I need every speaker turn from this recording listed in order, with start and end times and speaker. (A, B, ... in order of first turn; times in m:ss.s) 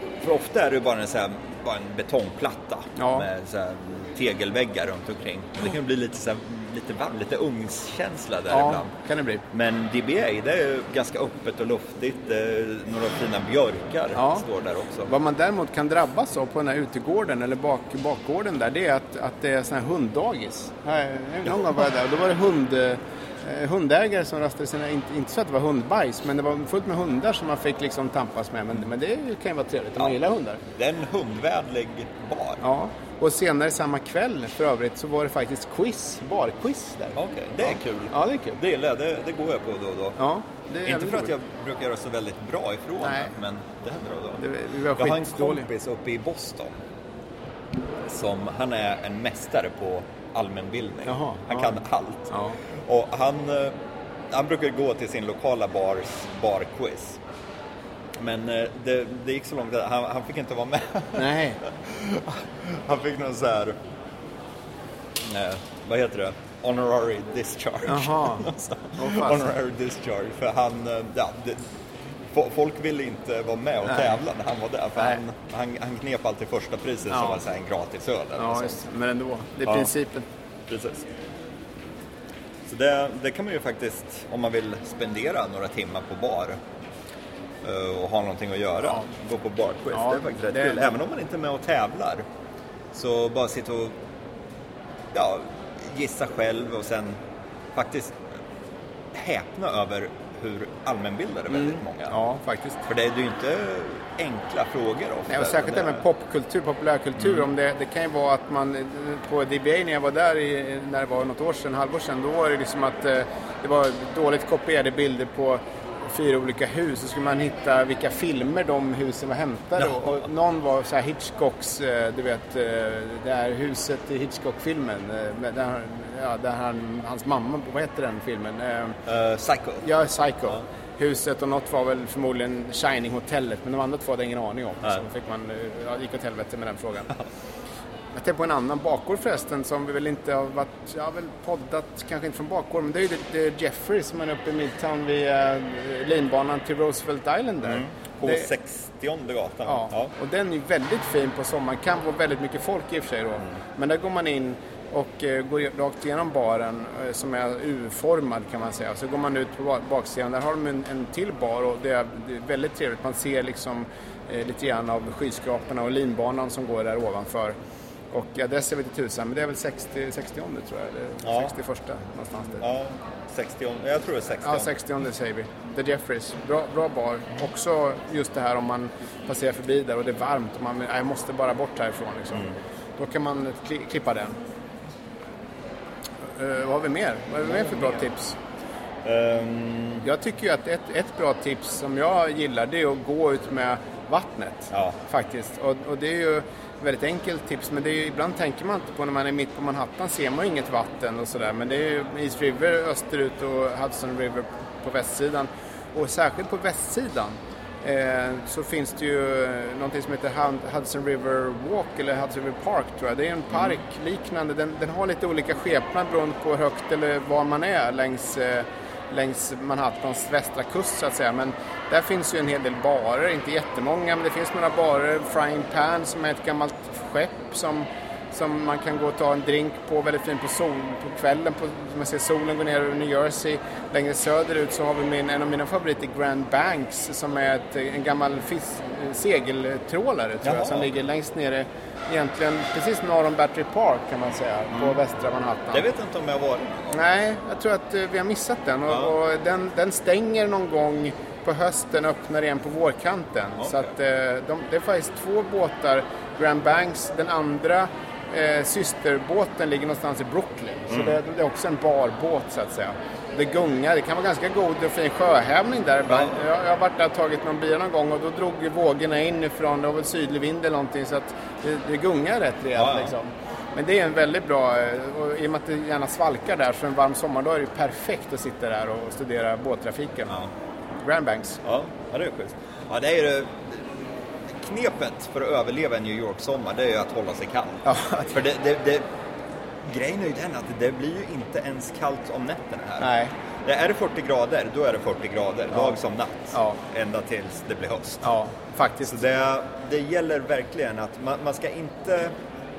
0:00.2-0:08.9 A
0:03.0-0:03.3 B
0:08.5-0:09.4 B
0:09.5-0:15.1 A
0:14.1-0:14.4 B
0:15.0-0:30.6 B
0:30.7-0:32.6 A
0:32.6-0:38.6 B
0:37.2-0:40.2 A
0:40.2-0:41.3 B
0:40.8-0:44.4 A
0:43.0-0:43.3 B
0:44.4-0:45.7 B
0:44.9-0:46.8 A
0:48.0-0:53.8 A
0:51.0-0:52.6 B
0:54.3-0:57.2 A
0:58.2-1:03.8 A
1:01.2-1:01.6 B
1:05.2-1:11.7 A
1:07.8-1:09.5 B
1:12.3-1:18.8 A
1:17.1-1:17.4 B
1:18.4-1:20.2 B
1:20.7-1:21.1 A
1:22.6-1:26.6 A
1:27.6-1:32.2 A
1:29.9-1:31.0 B
1:32.9-1:34.0 A
1:35.1-1:37.2 A
1:37.7-1:38.3 A
1:39.1-1:42.1 A
1:41.5-1:42.8 B
1:42.8-1:46.0 A
1:45.3-2:09.0 B
2:09.0-2:09.8 A
2:09.8-2:17.2 B
2:18.1-2:28.5 B
2:27.6-2:30.1 A
2:29.6-2:47.6 B
2:48.1-2:52.7 B
2:51.2-2:51.5 A
2:52.6-2:54.7 A
2:54.4-3:04.4 B
3:06.2-3:08.4 B
3:09.0-3:10.0 A
3:10.0-4:05.8 B
3:14.7-3:15.0 A
4:00.4-4:00.9 A
4:05.7-4:07.0 A
4:06.9-4:40.4 B
4:20.9-4:21.2 A
4:26.1-4:26.3 A
4:32.8-4:33.1 A
4:40.9-4:41.6 B
4:41.6-4:49.0 A
4:47.8-4:48.3 B
4:49.8-4:53.1 A
4:53.0-4:53.3 B
4:53.6-4:58.3 A
4:55.7-4:56.0 B
4:56.5-4:56.8 B
4:58.2-4:59.2 B
4:59.0-5:02.3 A